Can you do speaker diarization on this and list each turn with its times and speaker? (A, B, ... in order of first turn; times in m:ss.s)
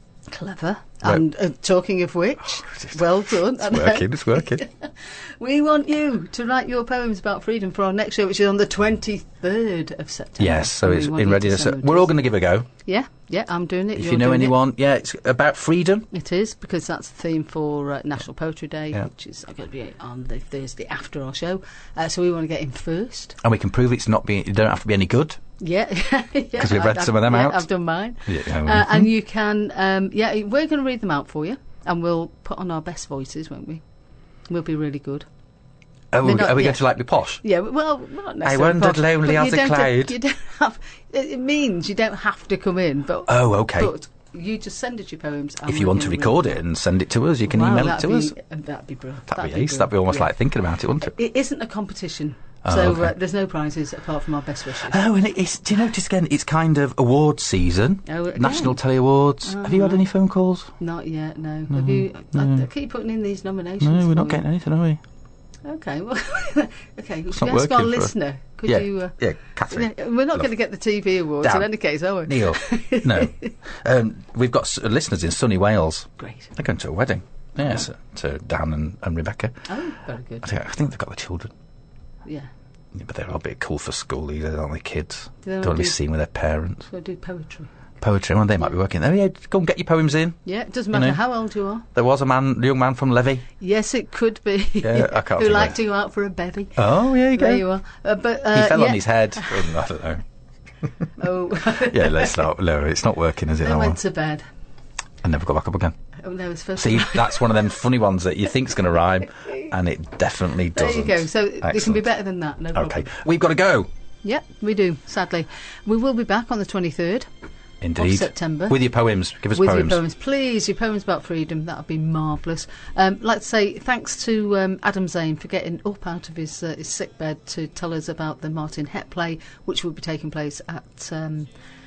0:00.3-0:12.1 A
0:02.7-0:04.6 B
0:10.4-0:12.7 B
0:12.8-0:14.6 A
0:13.9-0:16.1 B
0:16.1-0:23.4 A
0:23.4-0:25.4 B
0:25.6-0:33.8 A
0:26.6-0:27.7 B
0:28.3-0:29.1 B
0:34.5-0:35.3 A
0:36.1-0:37.4 B
0:36.2-0:36.8 A
0:37.4-0:46.6 A
0:38.4-0:40.2 B
0:43.3-0:43.9 B
0:45.7-0:48.4 B
0:47.4-0:50.3 A
0:49.3-0:51.1 B
0:51.0-0:55.0 A
0:52.6-0:53.1 B
0:54.8-1:00.7 B
0:58.1-0:58.8 A
0:59.4-1:00.1 A
1:00.8-1:04.4 A
1:01.7-1:02.6 B
1:03.8-1:05.0 B
1:05.6-1:09.2 A
1:07.3-1:08.1 B
1:08.6-1:10.5 B
1:09.7-1:13.5 A
1:11.4-1:11.7 B
1:12.3-1:19.7 B
1:16.2-1:16.5 A
1:19.7-1:20.5 A
1:20.4-1:21.5 B
1:22.2-1:22.5 A
1:22.9-1:26.9 B
1:25.4-1:26.0 A
1:26.9-1:27.7 A
1:28.0-1:30.4 B
1:30.4-1:31.9 A
1:30.9-1:31.2 B
1:31.9-1:33.4 B
1:33.6-1:39.8 A
1:34.8-1:35.8 B
1:36.8-1:37.6 B
1:38.5-1:40.2 B
1:41.2-1:42.5 A
1:41.8-1:44.0 B
1:43.6-1:44.4 A
1:45.2-1:46.0 B
1:46.2-1:47.7 A
1:46.8-1:52.1 B
1:50.7-1:53.1 A
1:52.7-1:53.9 B
1:54.2-1:57.3 A
1:57.8-2:00.0 B
1:58.0-1:58.8 A
1:59.5-2:11.5 A